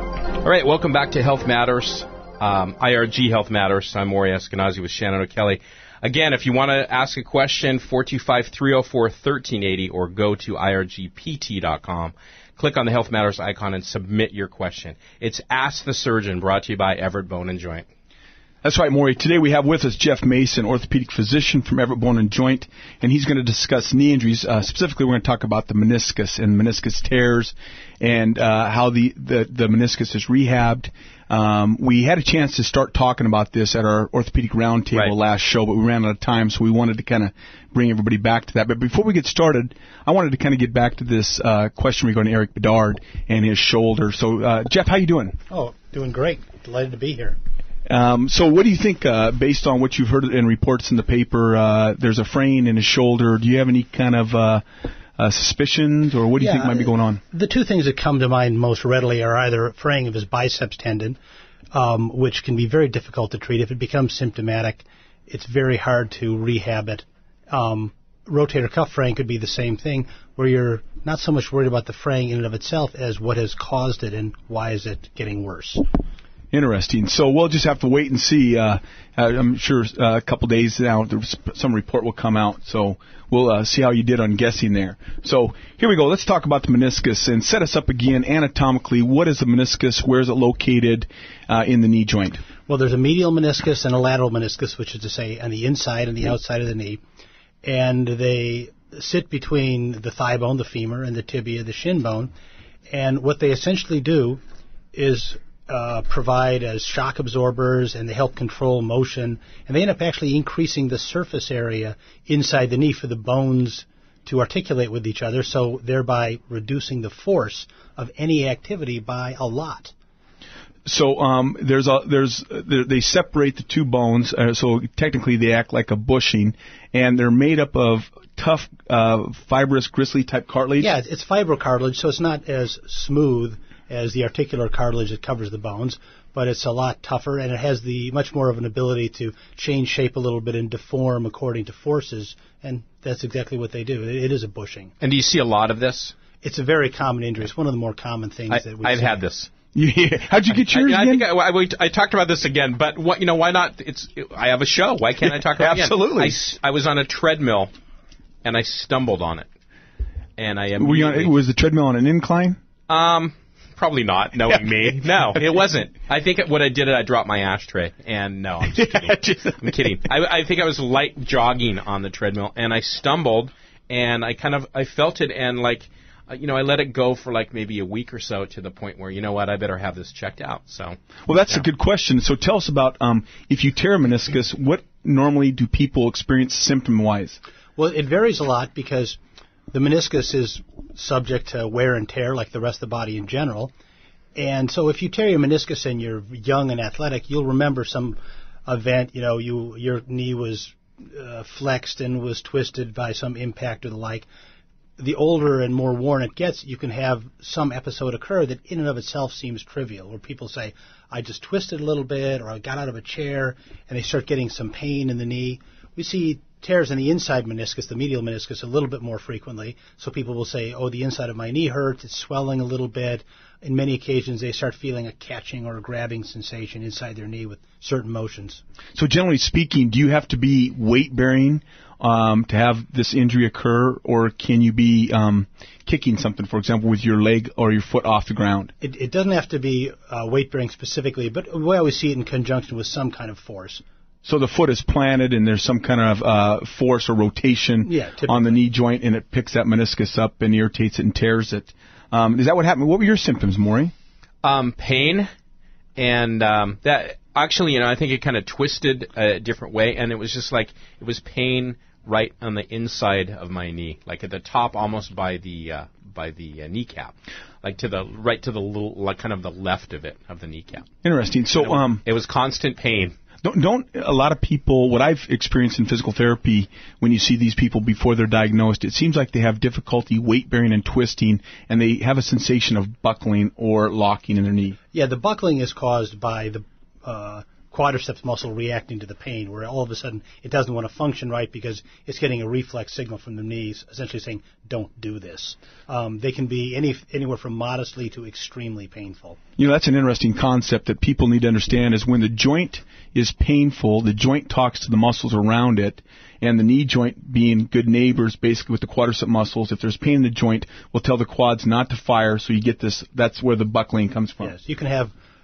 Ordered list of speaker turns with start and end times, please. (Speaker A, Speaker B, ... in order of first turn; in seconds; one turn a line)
Speaker A: 0.4-17.9
Speaker B: 18.6-45.4
Speaker C: 45.5-47.4
Speaker B: 47.9-54.6
Speaker B: 55.2-57.2
Speaker C: 56.4-61.2
Speaker C: 61.7-75.8
Speaker B: 76.5-92.4
Speaker C: 92.7-97.0
Speaker C: 97.6-102.3
Speaker C: 102.9-104.4
Speaker C: 104.9-119.9
Speaker B: 120.8-130.9
Speaker C: 130.8-144.9
Speaker A: 145.0-146.2
Speaker C: 146.4-149.2
Speaker A: 148.5-149.5
Speaker B: 149.7-151.2
Speaker A: 150.5-157.7
Speaker B: 155.5-156.3
Speaker A: 158.4-159.5
Speaker A: 160.4-161.4
Speaker B: 160.8-162.6
Speaker A: 162.9-181.6
Speaker B: 168.7-169.9
Speaker B: 181.3-187.4
Speaker C: 187.8-189.2
Speaker C: 189.7-193.7
Speaker C: 194.3-204.2
Speaker C: 205.0-228.6
Speaker B: 228.9-238.7
Speaker C: 238.8-243.8
Speaker B: 244.2-253.9
Speaker C: 247.8-248.6
Speaker A: 254.4-255.3
Speaker A: 256.0-270.9
Speaker B: 271.0-272.0
Speaker A: 271.6-273.1
Speaker B: 273.4-284.8
Speaker C: 284.9-299.4
Speaker B: 299.6-314.5
Speaker C: 314.4-315.1